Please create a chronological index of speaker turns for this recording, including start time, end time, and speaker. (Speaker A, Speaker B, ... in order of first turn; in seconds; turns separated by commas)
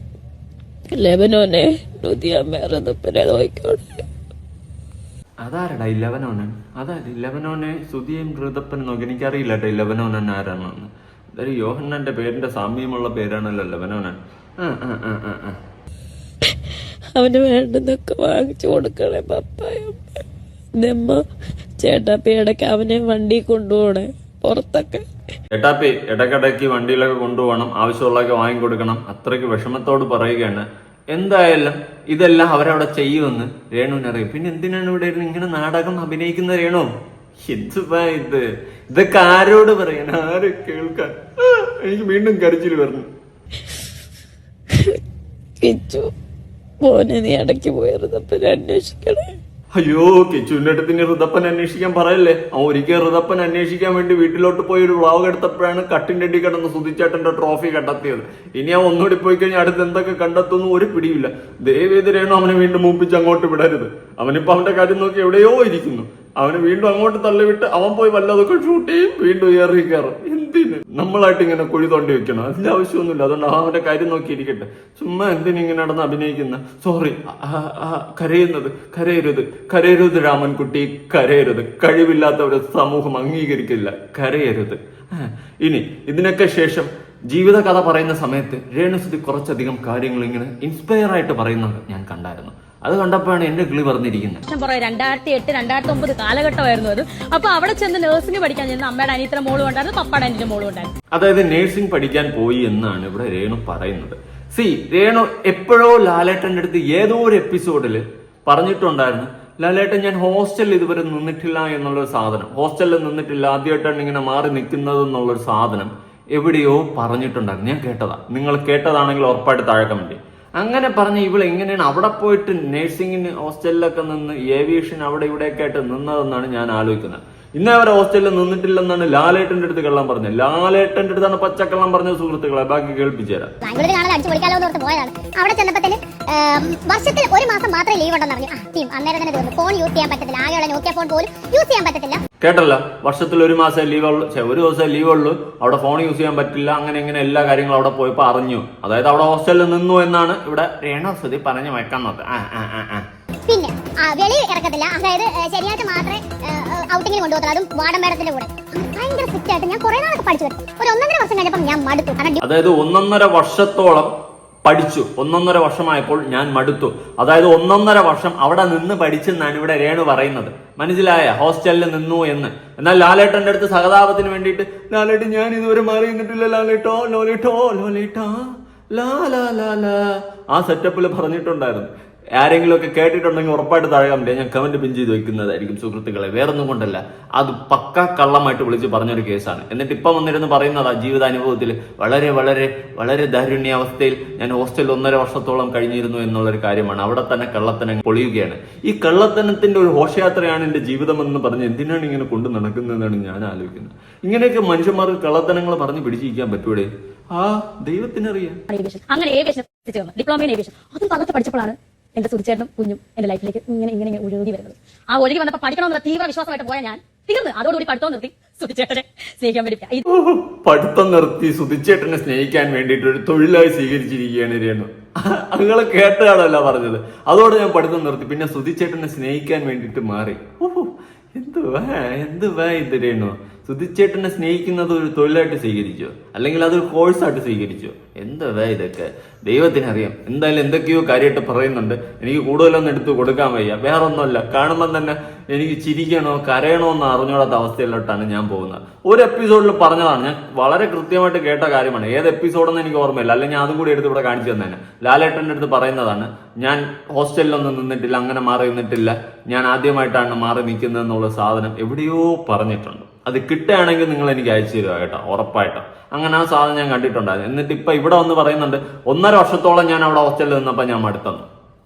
Speaker A: 0.9-4.1, Speaker B: 5.4-15.6, Speaker A: 17.1-20.2, Speaker A: 20.8-21.2, Speaker A: 21.8-25.1, Speaker B: 25.5-36.9, Speaker B: 37.4-43.1, Speaker A: 45.6-46.1, Speaker A: 46.8-49.3, Speaker B: 49.7-94.4, Speaker C: 94.5-100.9, Speaker B: 101.1-133.5, Speaker D: 133.6-142.2, Speaker B: 142.4-153.1, Speaker D: 153.5-162.4, Speaker B: 162.4-164.1, Speaker B: 164.7-208.6, Speaker C: 208.7-220.0, Speaker B: 220.1-271.5